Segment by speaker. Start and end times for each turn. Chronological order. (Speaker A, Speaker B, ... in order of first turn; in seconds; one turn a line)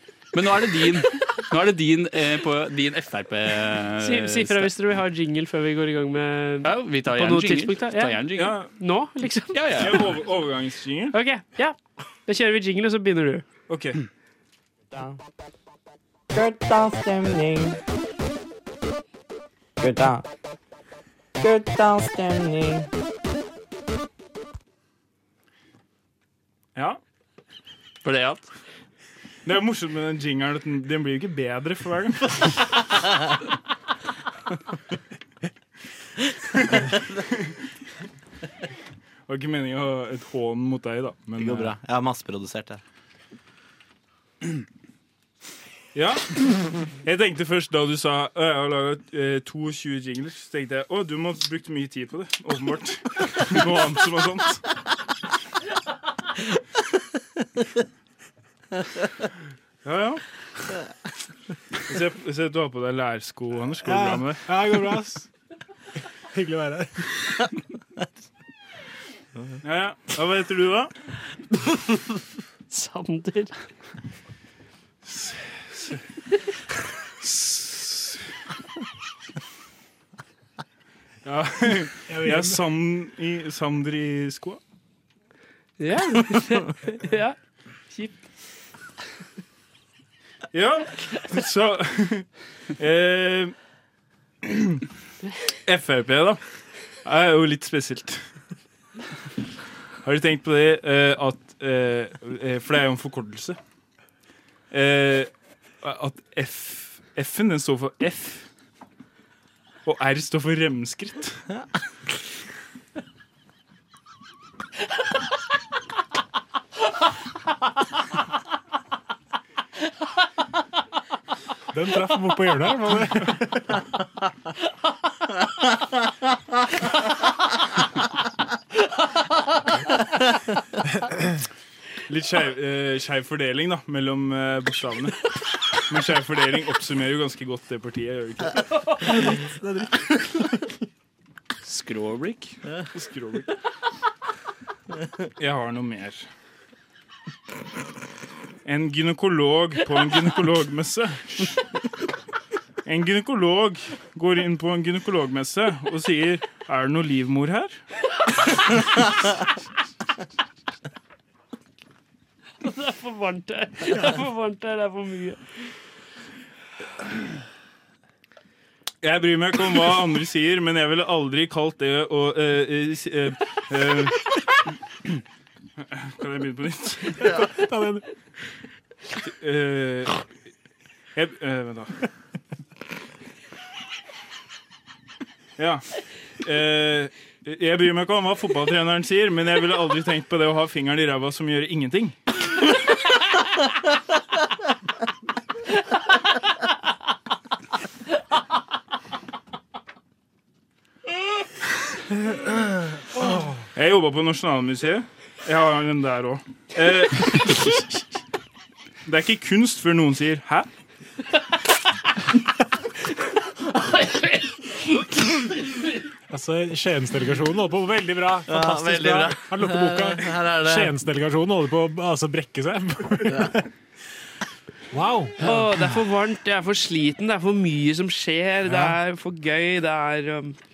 Speaker A: 0.3-4.7
Speaker B: 4.0-9.6
Speaker A: 6.6-8.6
Speaker C: 8.3-8.7
Speaker A: 9.5-10.1
Speaker C: 9.8-11.2
Speaker B: 11.1-13.4
Speaker C: 13.7-14.0
Speaker D: 14.9-15.2
Speaker D: 16.3-17.8
Speaker D: 19.8-20.2
Speaker D: 21.4-22.9
Speaker A: 28.0-28.5
Speaker C: 29.4-32.6
Speaker C: 39.3-41.7
Speaker E: 41.4-42.8
Speaker C: 46.0-54.6
Speaker C: 59.8-60.2
Speaker C: 61.9-64.4
Speaker F: 63.9-65.3
Speaker F: 66.3-67.1
Speaker C: 69.6-70.9
Speaker B: 72.7-73.5
Speaker C: 75.1-76.0
Speaker C: 77.2-78.2
Speaker C: 81.2-84.6
Speaker F: 82.1-82.6
Speaker B: 85.8-87.4
Speaker B: 87.9-88.2
Speaker C: 90.5-93.5
Speaker C: 94.4-94.8
Speaker C: 95.7-96.4
Speaker C: 97.0-98.2
Speaker C: 100.0-103.6
Speaker C: 104.7-105.3
Speaker C: 105.8-108.5
Speaker C: 109.8-111.4
Speaker F: 121.7-123.8
Speaker C: 132.1-138.6
Speaker A: 141.6-142.6
Speaker C: 142.9-143.5
Speaker C: 145.4-146.3
Speaker C: 148.7-151.6
Speaker C: 152.8-157.8
Speaker B: 162.6-165.4
Speaker C: 169.0-174.2
Speaker C: 175.8-177.2
Speaker F: 177.2-178.0
Speaker C: 179.2-180.2
Speaker C: 181.2-181.9
Speaker C: 185.6-185.8
Speaker C: 186.4-192.2
Speaker C: 203.7-207.8
Speaker C: 209.1-210.7
Speaker F: 216.3-223.7
Speaker E: 218.5-220.9
Speaker E: 223.3-223.5
Speaker F: 224.9-225.7
Speaker B: 225.4-230.6
Speaker F: 228.7-229.0